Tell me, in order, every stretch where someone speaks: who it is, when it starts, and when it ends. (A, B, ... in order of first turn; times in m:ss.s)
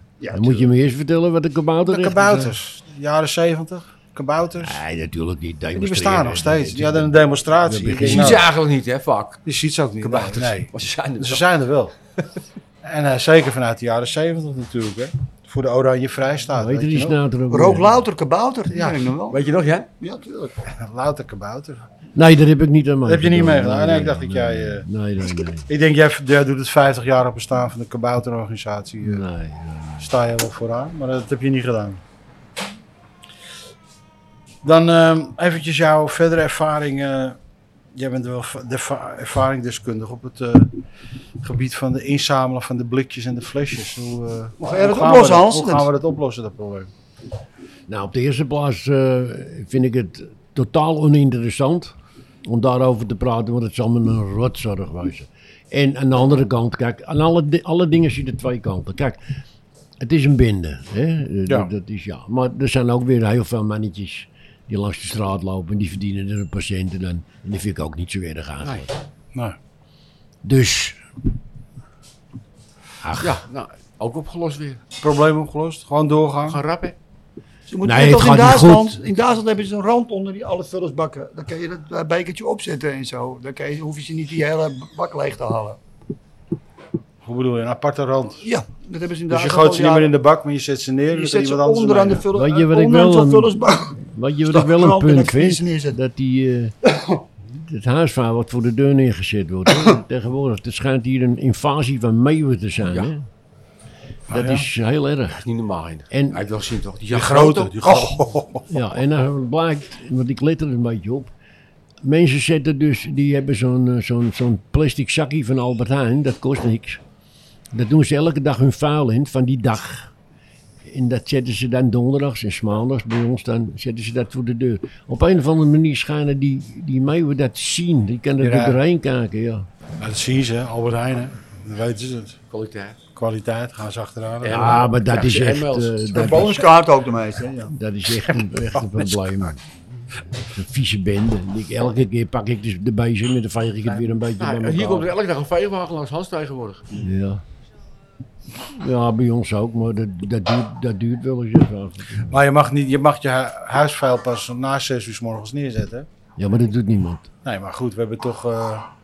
0:00.2-0:00.6 A
0:00.3-0:02.6 B
0:01.8-0:04.8 C
0:04.6-0:08.5 B
0:05.7-0:08.5 C
0:07.9-0:09.4 D
0:09.4-0:11.9 C
0:10.0-0:11.4 D
0:12.8-0:17.2 C
0:16.5-0:18.0 B
0:17.5-0:19.4 A
0:18.7-0:19.0 C
0:19.3-0:19.9 D
0:20.0-0:20.5 A
0:20.7-0:21.9 C
0:22.1-0:25.7 B
0:23.0-0:24.8 C
0:25.7-0:29.2 C
0:29.0-0:30.1 B
0:30.0-0:32.0 C
0:34.6-0:37.4 C
0:37.9-0:40.7 C
0:41.4-0:46.9 C
0:44.6-0:45.9 A
0:47.9-0:51.9 B
0:52.4-0:59.2 B
1:00.0-1:08.9 B
1:08.6-1:08.9 D
1:10.4-1:11.0 B
1:13.0-1:13.4 B
1:13.2-1:14.8 D
1:15.0-1:16.6 C
1:16.5-1:17.0 D
1:17.7-1:25.8 A
1:17.8-1:18.9 B
1:27.2-1:28.4 C
1:28.4-1:30.1 A
1:29.3-1:32.2 C
1:31.1-1:36.0 A
1:32.3-1:36.8 B
1:37.5-1:43.2 B
1:44.3-1:44.6 C
1:44.3-1:45.4 B
1:45.4-1:48.1 D
1:46.1-1:46.4 B
1:47.1-1:48.7 C
1:48.7-1:51.3 B
1:52.0-1:57.0 B
1:57.7-2:00.1 B
2:00.8-2:09.7 B
2:08.4-2:08.8 C
2:10.0-2:12.4 C
2:12.5-2:13.0 D
2:13.2-2:14.9 C
2:14.4-2:16.0 D
2:14.4-2:16.8 B
2:16.1-2:17.7 A
2:17.7-2:19.6 B
2:18.8-2:19.5 C
2:20.3-2:25.1 B
2:23.9-2:24.1 C
2:24.4-2:27.0 D
2:27.0-2:27.4 B
2:28.7-2:32.4 B
2:32.3-2:36.1 C
2:36.4-2:37.3 B
2:37.4-2:38.9 C